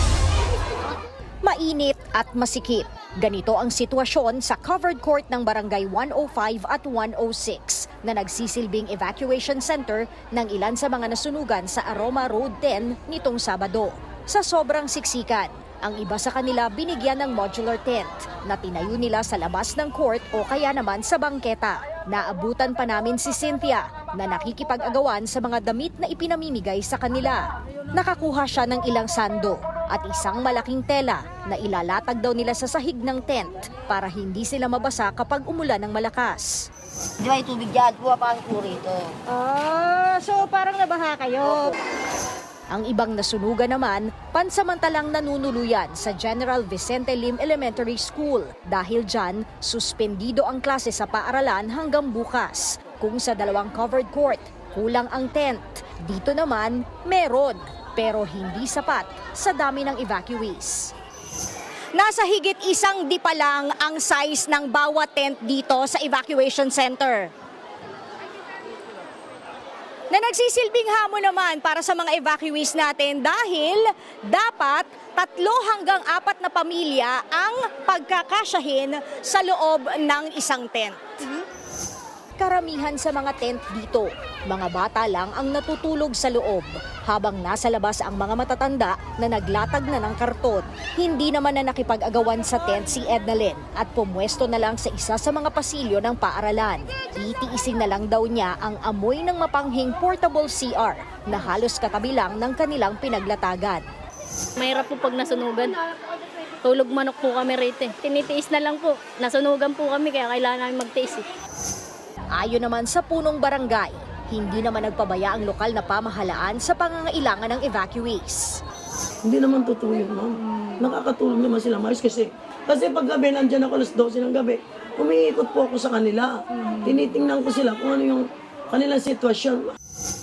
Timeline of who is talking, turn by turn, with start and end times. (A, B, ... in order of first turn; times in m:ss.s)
0:01.4-0:36.7 A
0:37.2-0:39.2 B
0:39.3-0:41.8 A
0:42.7-1:00.9 A
1:01.9-1:07.3 A
1:10.1-1:21.4 A
1:22.4-1:43.8 A
1:44.6-1:45.8 C
1:46.6-1:51.2 C
1:52.3-1:58.6 A
1:59.2-2:09.8 D